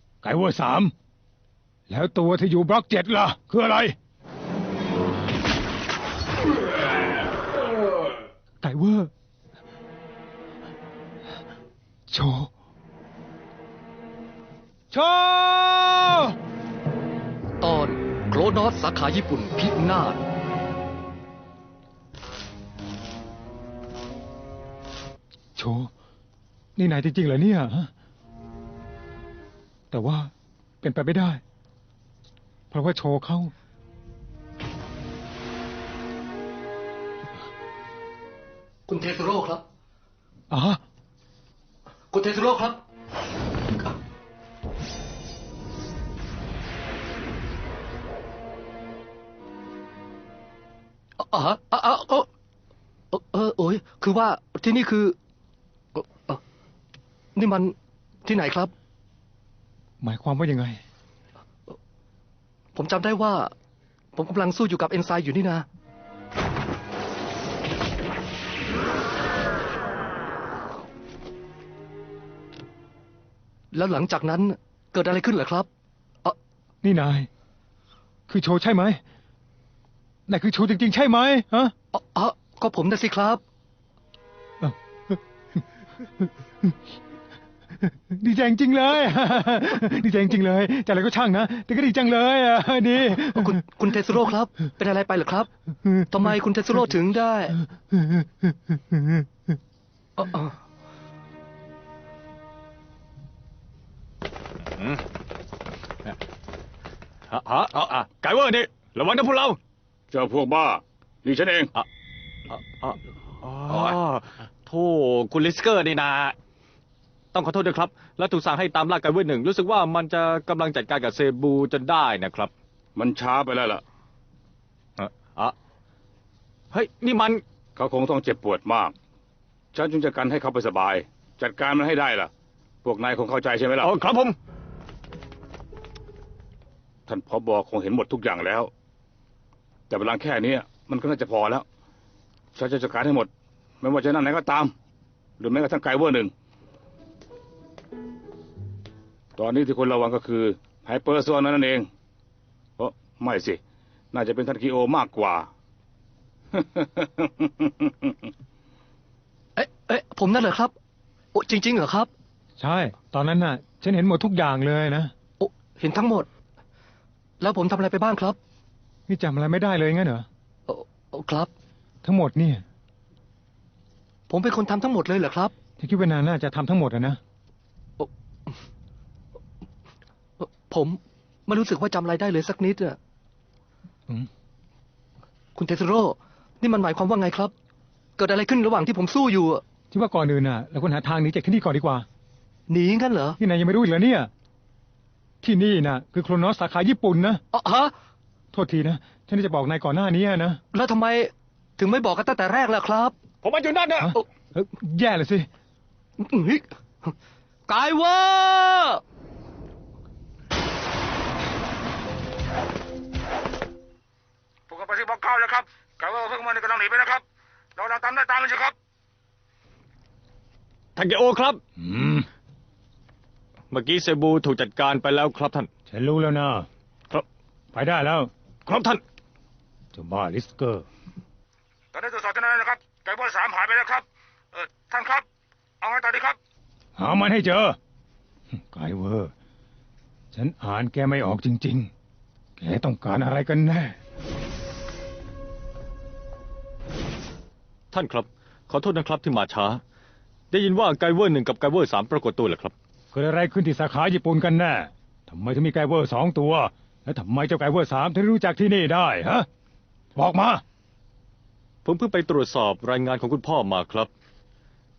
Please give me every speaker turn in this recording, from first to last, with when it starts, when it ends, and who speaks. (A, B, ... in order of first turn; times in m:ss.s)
0:00.2-0:00.9 A
0:01.9-0:03.9 A
0:08.6-0:09.1 A
0:12.1-0:12.5 A
0:14.9-0:16.3 A
0:17.6-0:20.2 B
0:25.6-0:25.9 A
0:26.8-0:27.9 A
0:29.9-0:31.4 A
0:32.7-0:33.5 A
0:38.8-0:39.6 B
0:40.5-0:40.8 A
0:42.1-0:42.8 B
0:51.2-0:52.3 B
0:53.1-0:55.2 B
0:55.9-0:56.4 B
0:57.3-0:58.7 B
1:00.0-1:00.8 A
1:02.7-1:03.5 B
1:04.1-1:05.6 B
1:13.7-1:15.7 B
1:16.8-1:17.3 A
1:18.3-1:19.0 A
1:20.3-1:21.7 A
1:21.9-1:23.4 B
1:24.6-1:25.2 A
1:27.8-1:33.6 A
1:33.1-1:35.5 B
1:35.8-1:36.2 A
1:36.1-1:37.6 B
1:37.5-1:39.3 A
1:40.2-1:40.5 B
1:44.8-1:45.0 C
1:47.3-1:49.6 C
1:50.1-1:51.7 D
1:52.5-1:56.3 C
1:57.3-2:02.5 C
2:03.0-2:03.8 D
2:05.0-2:05.5 C
2:06.7-2:07.4 C
2:07.8-2:08.9 D
2:09.7-2:12.3 D
2:12.8-2:13.9 D
2:13.8-2:14.4 C
2:17.1-2:18.7 D
2:19.9-2:21.6 D
2:22.5-2:23.3 D
2:23.8-2:24.7 D
2:25.4-2:26.3 D
2:29.4-2:31.9 D
2:32.8-2:33.6 D
2:34.1-2:35.5 D
2:36.5-2:38.1 D
2:39.6-2:40.7 B
2:41.3-2:42.1 B
2:42.6-2:45.1 A
2:45.4-2:46.3 B
2:47.4-2:48.4 B
2:49.1-2:50.2 A
2:50.7-2:51.5 B
2:52.0-2:52.6 A
2:54.3-2:55.5 B
2:55.8-2:57.2 A
2:58.0-2:58.5 B
3:00.4-3:03.0 B
3:05.5-3:07.5 B
3:08.2-3:09.6 B
3:09.9-3:12.0 A
3:12.7-3:13.4 B
3:13.4-3:14.3 A
3:15.4-3:17.4 A
3:17.5-3:17.9 B
3:18.5-3:20.6 A
3:20.7-3:23.1 B
3:23.4-3:24.2 C
3:24.0-3:25.5 A
3:26.2-3:27.1 B
3:27.7-3:29.0 B
3:34.7-3:37.2 D
3:37.8-3:38.7 D
3:41.0-3:41.6 C
3:41.8-3:42.3 A
3:43.7-3:45.7 C
3:45.9-3:46.7 A
3:47.7-3:48.3 A
3:48.6-3:49.0 C
3:49.9-3:50.8 A
3:51.9-3:55.2 D
3:55.8-3:56.4 D
3:57.0-3:57.8 A
3:58.5-3:59.3 A
4:00.3-4:01.9 A
4:02.6-4:04.0 A
4:07.9-4:09.8 C
4:10.5-4:12.7 C
4:13.1-4:19.5 A
4:20.2-4:20.6 A
4:21.8-4:24.1 C